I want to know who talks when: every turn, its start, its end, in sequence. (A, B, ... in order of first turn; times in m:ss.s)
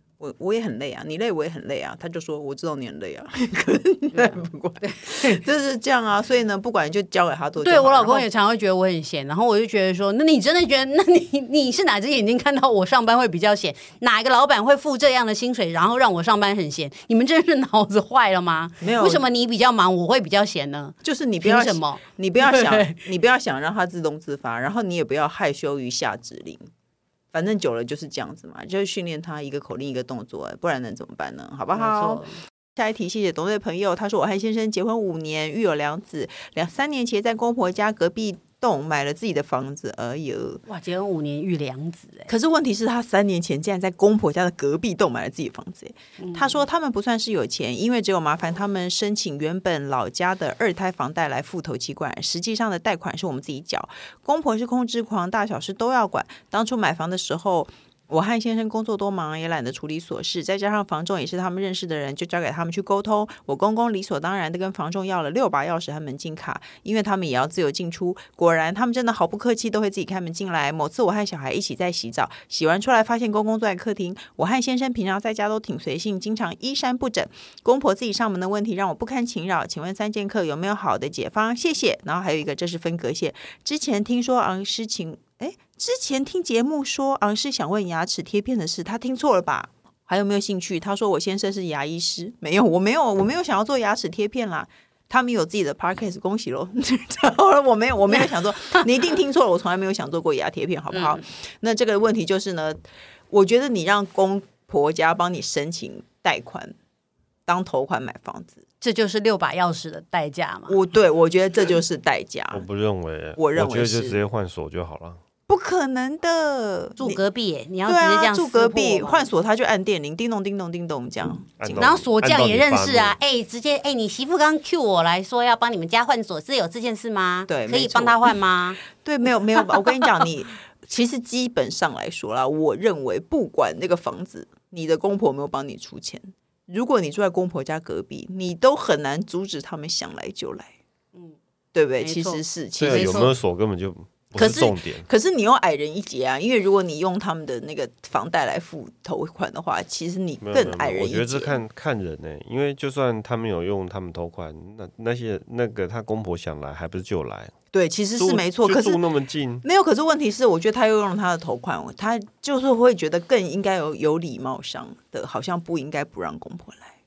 0:00.2-0:08.3 A
0:04.1-0:05.4 B
0:07.6-0:23.0 B
0:18.8-0:19.3 A
0:21.0-0:26.6 A
0:27.3-0:40.6 A
0:31.8-0:32.3 B
0:40.7-0:42.3 B
0:42.3-1:46.7 A
0:46.2-0:46.5 B
1:40.9-1:41.2 B
1:47.5-1:48.6 A
1:48.8-1:50.8 B
1:50.7-1:52.7 A
1:52.5-1:55.2 C
1:53.4-1:54.2 A
1:55.5-1:57.2 A
1:57.0-1:59.3 B
1:57.9-2:01.9 A
2:01.6-2:03.2 C
2:01.8-2:08.8 B
2:07.5-2:08.3 A
2:09.0-2:20.7 A
2:21.7-2:23.3 A
2:22.0-2:23.3 B
2:22.8-2:25.1 C
2:24.4-2:31.6 A
2:30.4-2:37.5 C
2:37.7-2:39.0 A
2:38.2-2:39.6 C
2:39.6-2:46.9 A